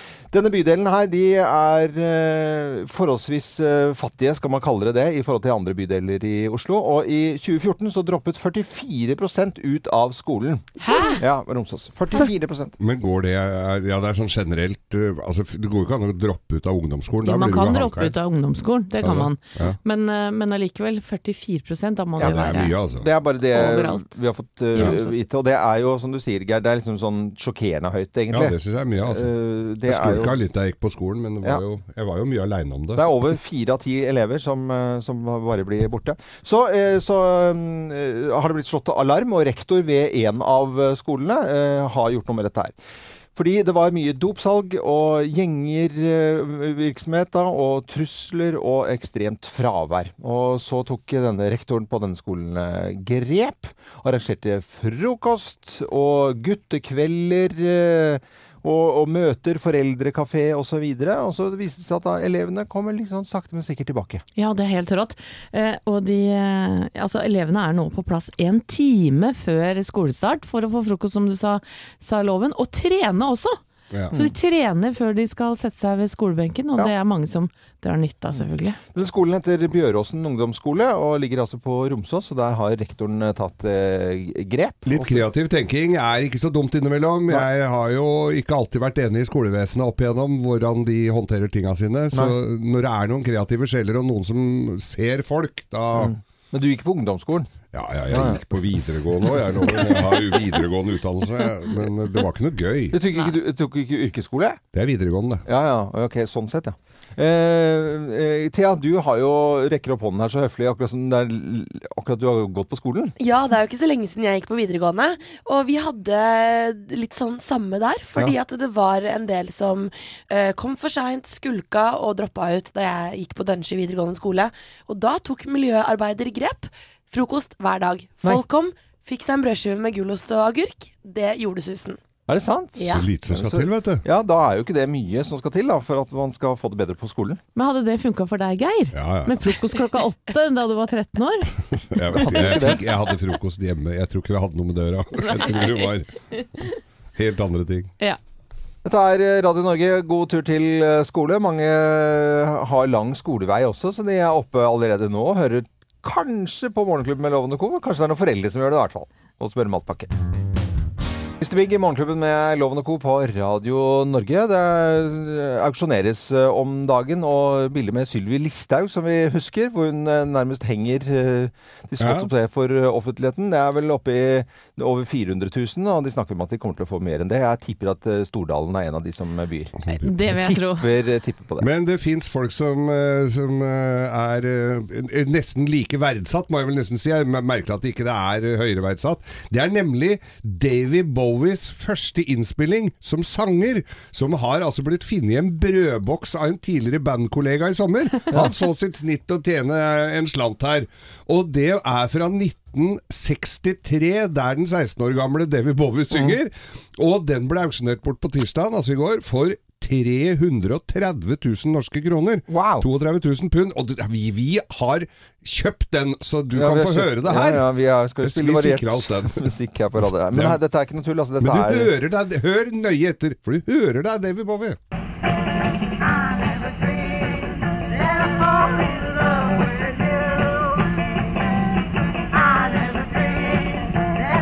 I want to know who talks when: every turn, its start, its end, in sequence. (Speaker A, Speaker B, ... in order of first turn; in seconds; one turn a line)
Speaker A: 0.3-12.7
Speaker B: 10.8-11.2
Speaker C: 12.8-18.1
Speaker B: 17.2-22.8
Speaker C: 19.0-19.8
Speaker A: 22.2-30.4
Speaker C: 22.2-23.1
Speaker B: 23.4-24.1
Speaker B: 24.7-25.2
Speaker C: 28.3-29.3
Speaker C: 29.8-33.1
Speaker A: 33.0-42.7
Speaker A: 43.3-64.2
Speaker B: 64.3-73.6
Speaker B: 74.1-78.8
Speaker A: 78.3-85.3
Speaker C: 84.8-96.1
Speaker A: 95.9-97.5
Speaker C: 97.7-103.0
Speaker A: 98.1-98.4
Speaker A: 102.9-104.6
Speaker C: 104.7-105.4
Speaker A: 105.5-113.2
Speaker D: 113.2-132.0
Speaker A: 132.3-137.4
Speaker C: 132.8-134.0
Speaker B: 137.5-141.6
Speaker C: 138.9-139.5
Speaker C: 141.9-146.1
Speaker A: 142.1-142.8
Speaker B: 145.3-145.8
Speaker C: 147.2-147.9
Speaker A: 148.8-160.1
Speaker A: 161.4-181.7
Speaker C: 172.0-172.3
Speaker C: 179.8-180.1
Speaker B: 179.9-180.9
Speaker C: 181.6-220.6
Speaker A: 206.1-206.4
Speaker A: 212.5-212.9
Speaker A: 216.5-221.9
Speaker C: 221.4-224.8